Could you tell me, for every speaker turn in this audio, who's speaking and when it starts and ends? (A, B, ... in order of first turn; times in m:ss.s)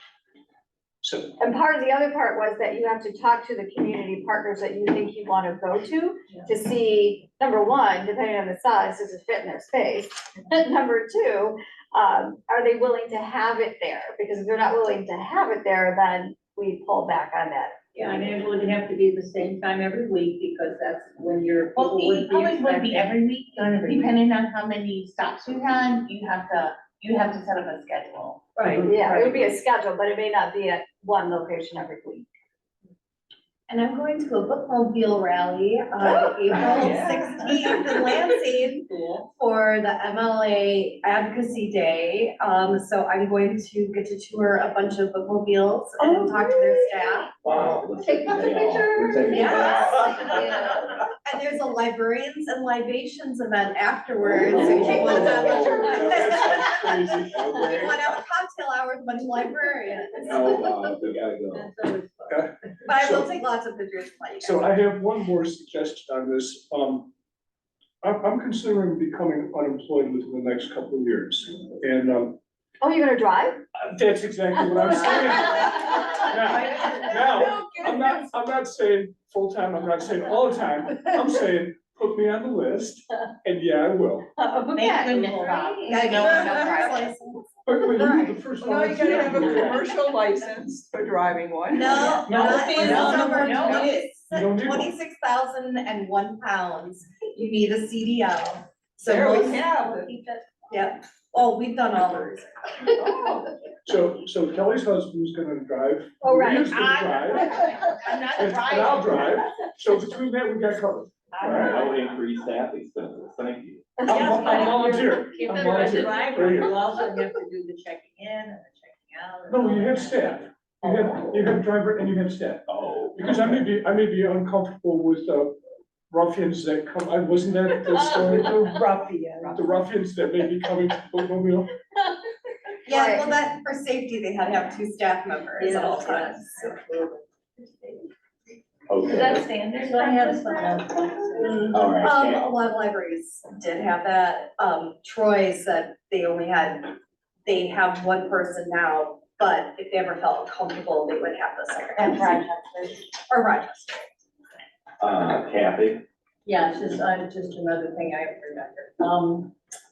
0:01.0-0:01.3 A
0:01.4-0:17.8 B
0:17.9-0:25.2 C
0:21.8-0:28.4 D
0:25.8-0:28.0 C
0:28.6-0:29.4 C
0:28.9-0:32.3 B
0:33.7-0:47.3 E
0:36.0-0:38.1 F
0:38.9-0:39.2 F
0:46.0-0:46.9 B
0:47.4-0:50.6 G
0:48.0-0:50.3 B
0:49.3-1:00.6 E
0:54.3-0:56.4 G
0:54.8-0:55.2 B
0:54.9-0:57.5 A
0:55.2-0:55.5 C
0:57.3-0:57.9 G
1:00.2-1:01.7 G
1:00.5-1:02.5 C
1:02.3-1:03.4 A
1:02.8-1:04.7 E
1:04.4-1:07.1 A
1:08.0-1:12.4 A
1:12.8-1:13.6 B
1:13.9-1:24.3 A
1:14.8-1:15.7 B
1:16.2-1:17.7 C
1:24.5-1:25.5 B
1:24.8-1:25.7 C
1:24.8-1:27.1 D
1:25.7-1:27.4 E
1:26.2-1:26.5 F
1:26.3-1:26.7 C
1:27.6-1:29.8 A
1:28.0-1:28.3 E
1:28.6-1:33.7 F
1:31.7-1:39.7 E
1:32.2-1:32.6 A
1:32.3-1:33.8 C
1:32.7-1:33.5 D
1:34.3-1:34.9 A
1:39.0-1:40.1 F
1:40.7-1:42.9 E
1:43.0-1:43.4 F
1:43.8-1:47.6 A
1:46.2-1:46.8 B
1:46.7-1:49.4 C
1:47.3-1:47.8 B
1:48.2-1:51.8 A
1:48.4-1:48.9 D
1:51.4-1:52.0 C
1:51.4-1:53.9 G
1:54.0-1:55.3 B
1:54.0-1:56.9 A
1:54.1-2:00.4 C
1:59.5-2:05.6 A
2:02.7-2:03.6 G
2:06.1-2:08.9 A
2:08.1-2:09.7 C
2:09.5-2:11.7 A
2:12.8-2:16.8 E
2:12.9-2:13.3 B
2:15.6-2:17.2 C
2:18.9-2:19.5 G
2:19.0-2:20.8 B
2:19.8-2:21.9 C
2:21.7-2:22.5 G
2:21.9-2:26.9 E
2:27.4-2:32.4 E
2:32.0-2:32.9 B
2:33.3-2:34.1 E
2:35.0-2:36.0 G
2:36.4-2:39.5 C